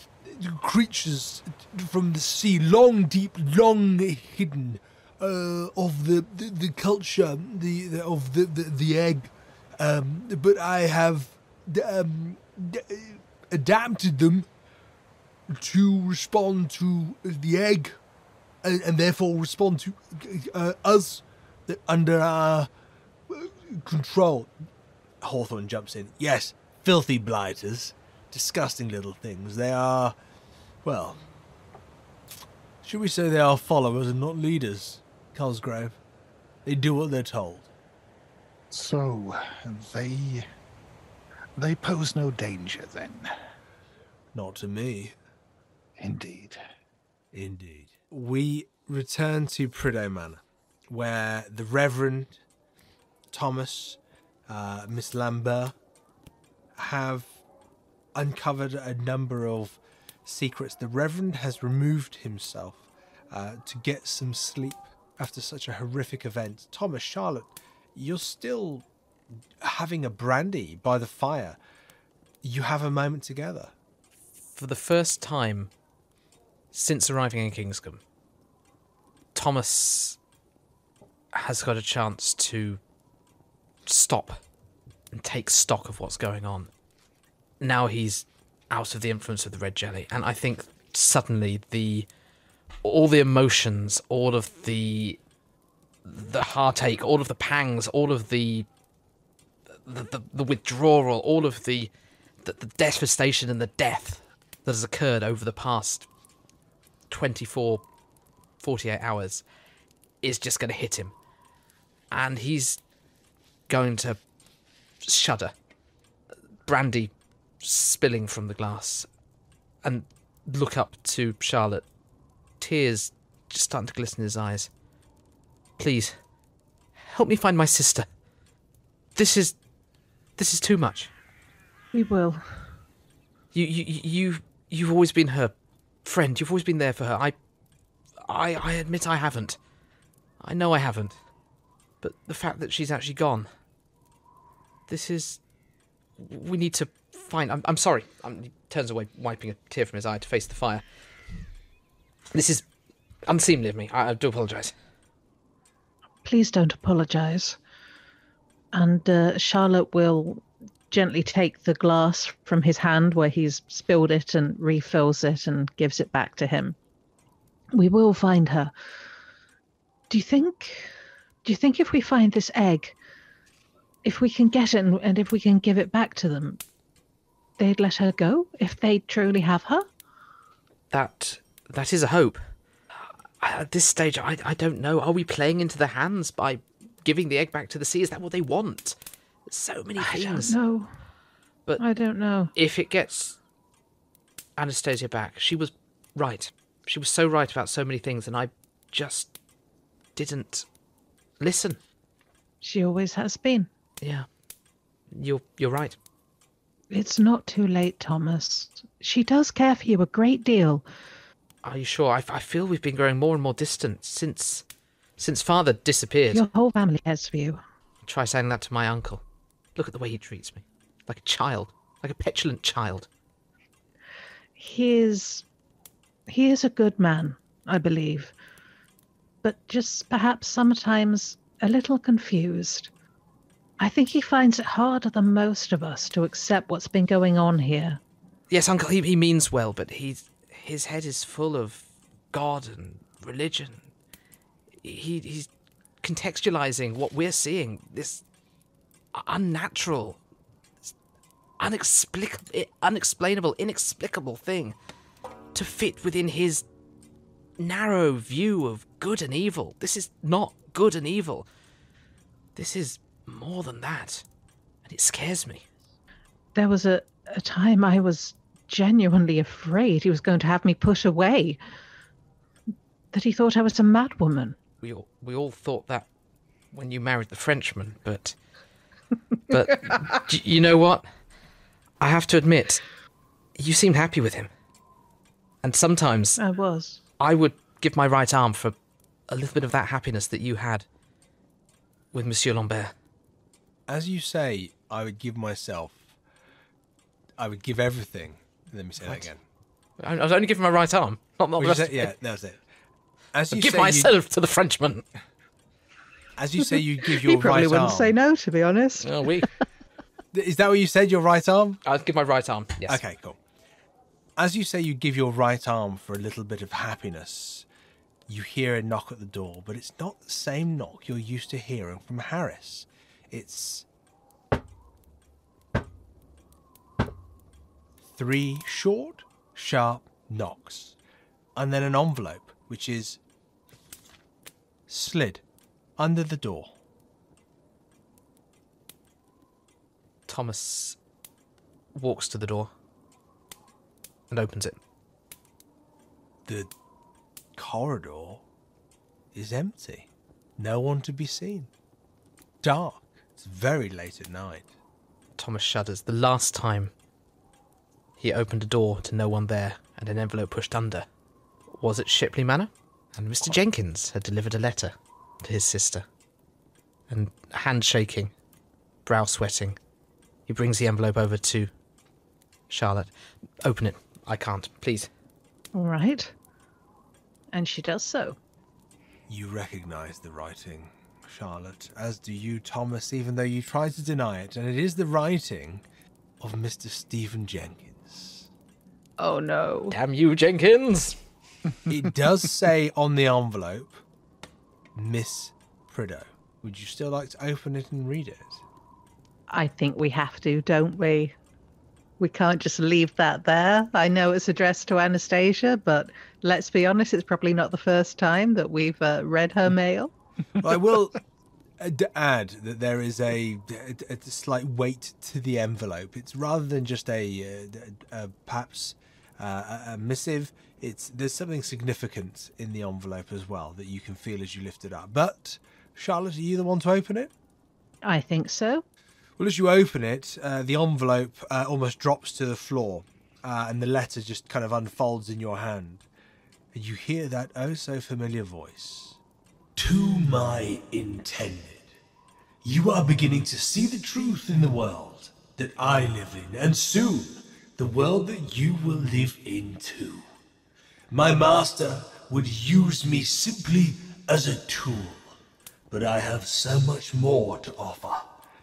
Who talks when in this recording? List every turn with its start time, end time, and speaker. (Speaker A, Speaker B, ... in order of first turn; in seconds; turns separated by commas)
Speaker A: 0.2-14.5, Speaker A: 15.5-18.0, Speaker A: 18.6-22.7, Speaker A: 23.3-24.5, Speaker A: 25.2-30.1, Speaker A: 30.8-31.2, Speaker A: 32.8-36.0, Speaker A: 36.6-37.7, Speaker B: 38.7-40.4, Speaker B: 41.6-43.3, Speaker A: 44.3-45.1, Speaker B: 46.0-46.6, Speaker A: 47.3-52.4, Speaker A: 53.3-55.7, Speaker A: 56.8-57.4, Speaker A: 58.1-68.9, Speaker A: 69.6-71.6, Speaker A: 72.4-73.7, Speaker C: 74.5-75.7, Speaker C: 76.7-78.0, Speaker C: 79.3-80.2, Speaker C: 81.3-82.8, Speaker C: 83.9-84.4, Speaker C: 85.1-86.7, Speaker C: 87.6-92.1, Speaker C: 92.8-95.2, Speaker C: 96.0-98.7, Speaker C: 99.8-101.9, Speaker C: 102.4-106.1, Speaker C: 107.1-107.8, Speaker C: 108.6-109.4, Speaker C: 110.2-111.1, Speaker C: 112.1-112.8, Speaker C: 113.7-114.2, Speaker C: 115.0-115.5, Speaker C: 116.7-119.1, Speaker C: 119.8-121.8, Speaker C: 122.6-124.7, Speaker C: 125.8-126.2, Speaker C: 127.0-128.1, Speaker C: 129.1-129.6, Speaker C: 130.4-131.1, Speaker D: 131.9-132.7, Speaker C: 133.5-135.5, Speaker C: 136.1-137.4, Speaker C: 138.3-139.6, Speaker C: 140.4-141.1, Speaker C: 142.0-143.5, Speaker C: 144.9-145.4, Speaker C: 146.2-150.8, Speaker C: 152.3-152.6, Speaker C: 153.3-154.7, Speaker D: 156.2-157.6, Speaker D: 158.7-166.8, Speaker D: 167.7-168.7, Speaker D: 170.1-170.9, Speaker D: 171.4-172.9, Speaker D: 174.0-176.6, Speaker D: 177.6-179.9, Speaker C: 180.9-182.4, Speaker C: 183.4-189.0, Speaker C: 189.5-190.6, Speaker D: 190.0-190.9, Speaker D: 191.8-192.5, Speaker C: 192.5-193.4, Speaker C: 194.6-199.3, Speaker C: 200.2-200.7, Speaker C: 201.4-201.8, Speaker D: 202.6-203.7, Speaker C: 204.0-204.3, Speaker C: 205.1-206.0, Speaker D: 206.9-210.8, Speaker C: 211.6-214.6, Speaker C: 215.2-216.4, Speaker D: 216.3-217.6, Speaker C: 218.1-219.2, Speaker C: 219.8-223.1, Speaker D: 224.6-225.4, Speaker D: 226.3-228.3, Speaker D: 229.4-232.9, Speaker D: 233.8-238.0, Speaker C: 238.5-243.9, Speaker C: 244.8-245.5, Speaker C: 246.0-248.2, Speaker C: 249.1-250.2, Speaker C: 251.6-254.8, Speaker C: 255.5-256.6, Speaker C: 257.6-261.4, Speaker C: 262.6-264.2, Speaker C: 264.8-265.6, Speaker D: 266.6-271.6, Speaker D: 273.1-274.6, Speaker C: 274.8-276.1, Speaker C: 276.7-278.4, Speaker C: 279.5-281.1, Speaker C: 282.0-282.8, Speaker C: 283.6-284.5, Speaker C: 285.6-286.4, Speaker D: 286.4-287.0, Speaker C: 287.2-288.7, Speaker C: 289.3-290.9, Speaker C: 292.1-292.9, Speaker A: 293.9-296.0, Speaker A: 297.4-299.4, Speaker C: 299.0-299.3, Speaker C: 300.0-302.1, Speaker A: 301.6-302.6, Speaker A: 303.3-304.1, Speaker C: 303.5-305.0, Speaker A: 306.4-308.1, Speaker D: 306.6-309.5, Speaker C: 309.0-309.5, Speaker A: 310.3-311.8, Speaker C: 311.8-313.0, Speaker A: 312.9-313.4, Speaker A: 314.4-317.6, Speaker A: 318.3-323.9, Speaker A: 328.1-331.0, Speaker A: 331.6-333.2, Speaker A: 334.9-335.4, Speaker A: 336.0-336.7, Speaker C: 340.3-341.0, Speaker C: 341.9-342.7, Speaker C: 344.3-344.8, Speaker A: 346.4-346.7, Speaker A: 347.6-348.4, Speaker A: 349.3-351.7, Speaker A: 352.6-354.7, Speaker C: 355.4-356.9, Speaker C: 358.2-361.1, Speaker C: 361.7-366.1, Speaker C: 367.1-368.3, Speaker C: 369.1-369.8, Speaker C: 370.5-371.7, Speaker C: 372.7-373.1, Speaker C: 373.6-375.1, Speaker D: 375.7-376.3, Speaker D: 377.5-378.4, Speaker A: 379.3-385.8, Speaker A: 386.4-388.5, Speaker D: 389.2-389.9, Speaker C: 389.9-391.2, Speaker A: 391.9-394.0, Speaker A: 394.9-398.6, Speaker D: 399.5-401.3, Speaker D: 402.2-410.1, Speaker A: 410.6-411.2, Speaker A: 411.8-427.3, Speaker D: 428.0-428.8, Speaker A: 429.4-436.1, Speaker A: 436.7-439.2, Speaker A: 439.8-441.9, Speaker A: 442.6-450.3, Speaker A: 451.1-455.3, Speaker A: 455.9-458.3